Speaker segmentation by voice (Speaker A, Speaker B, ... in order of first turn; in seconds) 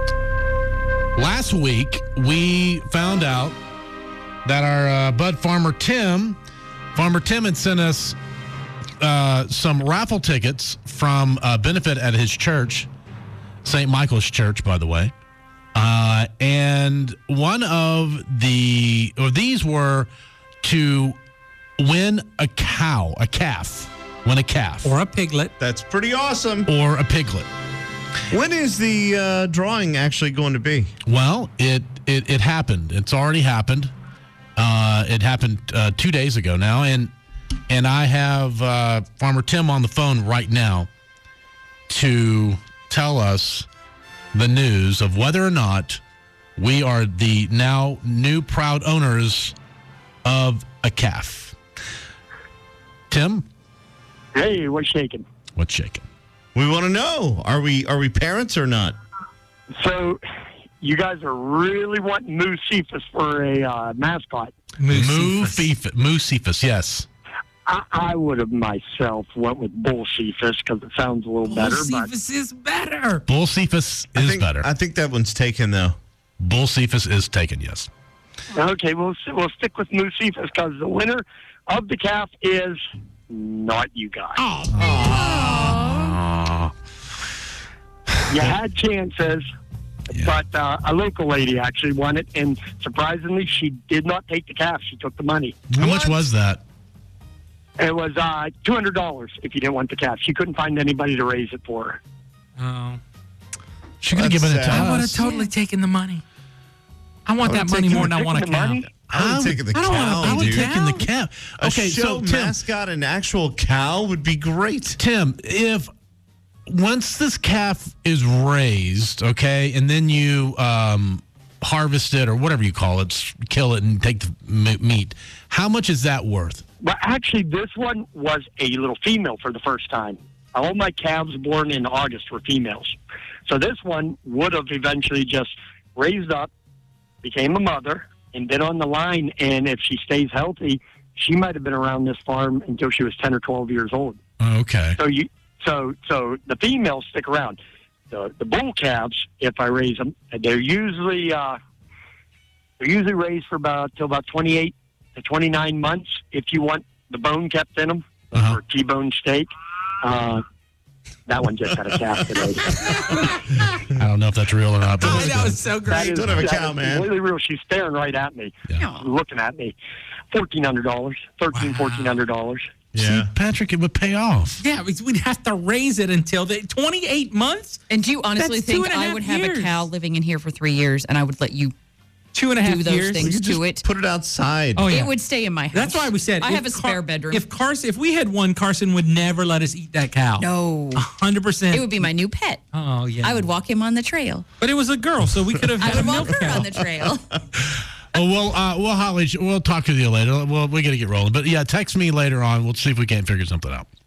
Speaker A: 1.1-3.5, 4.4-6.4, 6.9-8.2, 9.0-12.9, 13.6-15.1, 15.7-20.1, 20.6-21.2, 21.8-24.9, 26.7-27.5, 31.1-33.9, 34.5-37.1, 37.7-40.9, 41.9-43.7, 44.3-46.0, 46.6-49.5, 50.2-51.5, 53.1-53.5, 55.5-56.0, 64.9-67.1, 73.3-74.7, 76.4-77.9, 85.9-86.7, 95.7-96.6, 104.0-105.3, 109.1-112.6, 115.0-115.9, 116.7-126.6, 144.4-145.0, 158.3-158.6, 163.9-165.6, 172.9-174.6, 198.1-203.9
Speaker B: 24.8-25.5, 64.8-65.7, 71.4-73.2, 84.5-84.8, 102.6-103.0, 104.7-106.2, 107.2-108.9, 109.7-111.1, 165.0-166.3, 171.5-172.2, 174.6-177.8, 178.3-179.8, 182.3-183.3, 184.8-185.1, 185.7-192.0, 192.7-193.4, 194.6-196.7
Speaker C: 25.6-26.7, 28.3-30.9, 56.5-58.9, 74.1-76.0, 84.8-85.8, 95.8-96.2, 104.1-105.0, 107.4-108.1, 109.1-110.7, 111.6-115.0, 165.8-167.1, 172.9-173.3, 183.2-185.0
Speaker D: 54.3-55.2, 59.8-60.2, 60.8-64.5, 67.7-72.1, 78.5-84.4, 88.3-89.4, 90.1-95.6, 97.8-102.0, 107.8-108.9, 126.8-136.5, 137.2-144.2, 145.0-147.6, 148.1-151.6, 152.8-159.5, 160.0-160.4, 161.3-162.9, 165.9-169.7, 170.3-172.7
Speaker E: 168.7-169.1, 177.9-181.7, 182.6-183.8, 184.9-187.4, 190.4-191.0, 191.7-192.6, 193.2-194.4, 195.8-197.4